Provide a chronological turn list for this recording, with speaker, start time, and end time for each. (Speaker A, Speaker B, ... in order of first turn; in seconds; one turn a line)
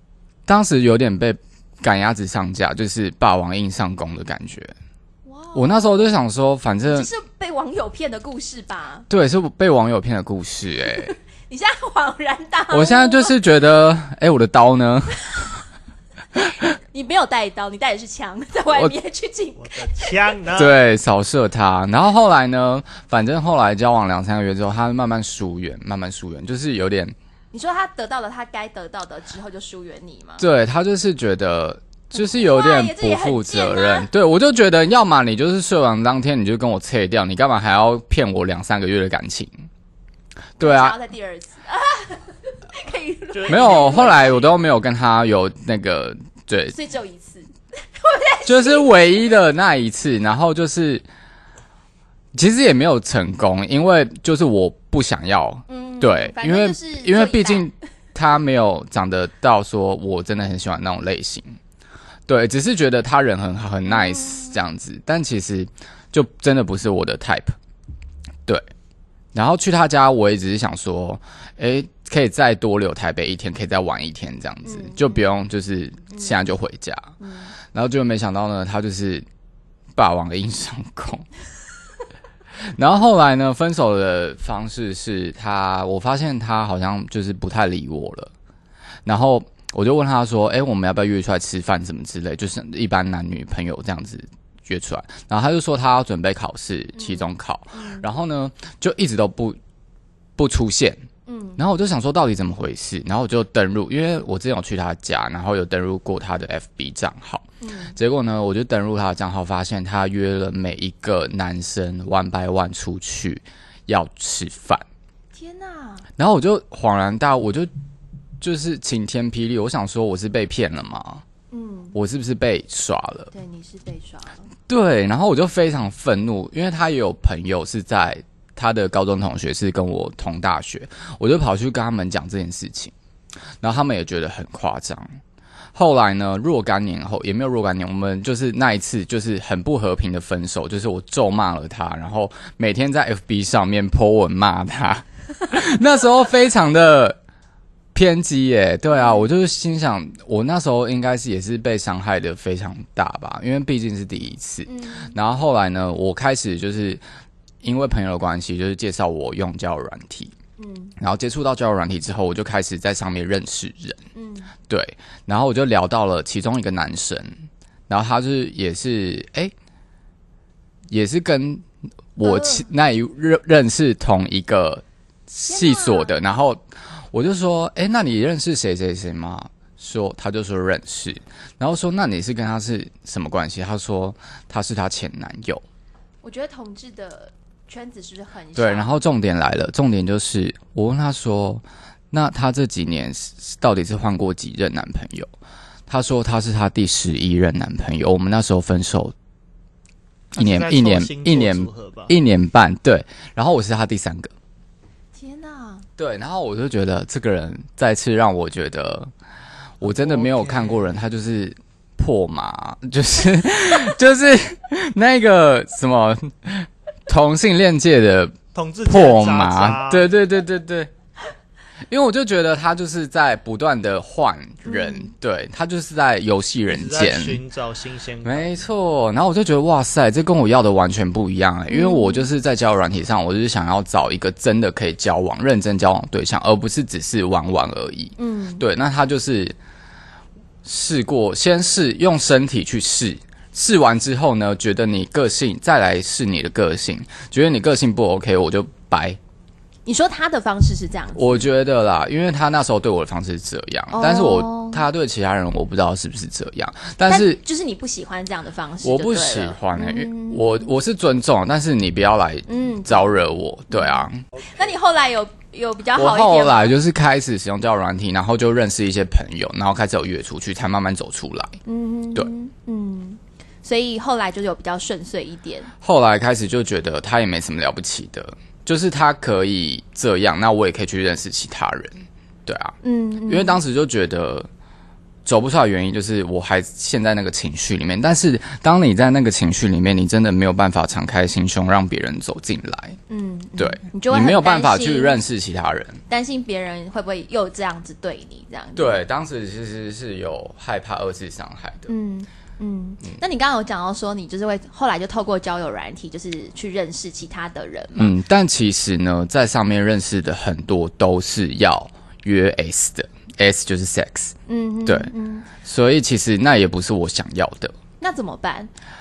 Speaker A: 0.5-4.7
Speaker B: 5.2-6.1
Speaker A: 5.5-7.1
Speaker B: 6.9-9.1
Speaker A: 9.1-11.2
Speaker B: 10.9-13.3
Speaker A: 12.7-15.5
Speaker B: 16.9-20.3
Speaker C: 19.6-20.8
Speaker A: 20.6-27.1
Speaker B: 27.5-30.5
Speaker A: 30.4-39.7
Speaker B: 32.1-34.1
Speaker A: 40.6-41.0
Speaker B: 40.6-44.4
Speaker C: 43.3-44.6
Speaker A: 43.5-46.8
Speaker B: 46.7-48.9
Speaker A: 48.5-51.0
Speaker A: 52.4-61.6
Speaker B: 55.7-57.7
Speaker A: 62.3-67.5
Speaker B: 63.9-64.6
Speaker A: 69.3-77.1
Speaker B: 74.6-75.2
Speaker B: 77.2-77.5
Speaker A: 77.7-79.3
Speaker A: 80.0-81.3
Speaker A: 82.8-88.3
Speaker A: 89.1-99.6
Speaker B: 97.0-98.1
Speaker A: 100.4-101.0
Speaker B: 101.3-101.6
Speaker A: 101.6-114.8
Speaker B: 107.6-108.0
Speaker B: 115.3-116.1
Speaker A: 116.2-117.7
Speaker A: 118.4-121.2
Speaker B: 121.5-122.0
Speaker A: 121.9-123.3
Speaker B: 123.3-124.5
Speaker A: 124.7-132.9
Speaker A: 133.6-135.2
Speaker A: 135.8-147.2
Speaker A: 147.9-157.0
Speaker B: 148.9-149.3
Speaker B: 154.7-155.1
Speaker A: 157.6-160.3
Speaker B: 160.6-160.9
Speaker A: 161.0-164.0
Speaker B: 164.1-164.5
Speaker A: 164.7-167.4
Speaker A: 167.9-169.5
Speaker A: 170.9-171.6
Speaker A: 172.2-176.6
Speaker B: 172.2-172.7
Speaker B: 175.5-176.2
Speaker A: 177.1-185.6
Speaker B: 186.2-188.9
Speaker A: 188.6-195.3
Speaker A: 195.9-199.1
Speaker C: 200.3-202.1
Speaker A: 200.4-204.3
Speaker B: 205.2-205.9
Speaker A: 206.0-209.1
Speaker A: 209.8-220.9
Speaker C: 209.8-211.0
Speaker C: 218.6-220.1
Speaker A: 221.9-227.4
Speaker B: 224.7-225.1
Speaker C: 226.7-228.6
Speaker A: 228.2-239.6
Speaker B: 231.7-232.3
Speaker B: 238.2-238.6
Speaker A: 240.7-249.2
Speaker B: 249.9-251.5
Speaker A: 251.2-257.4
Speaker B: 253.9-254.8
Speaker B: 257.1-260.7
Speaker A: 258.8-264.2
Speaker B: 262.5-266.7
Speaker A: 265.9-271.6
Speaker B: 271.6-275.7
Speaker A: 275.8-284.5
Speaker B: 282.8-283.6
Speaker A: 285.3-293.0
Speaker B: 293.1-295.2
Speaker A: 293.6-296.0
Speaker B: 296.1-299.0
Speaker A: 298.8-301.9
Speaker B: 301.9-308.1
Speaker A: 308.0-314.4
Speaker B: 314.5-315.5
Speaker A: 314.9-317.8
Speaker B: 318.0-318.7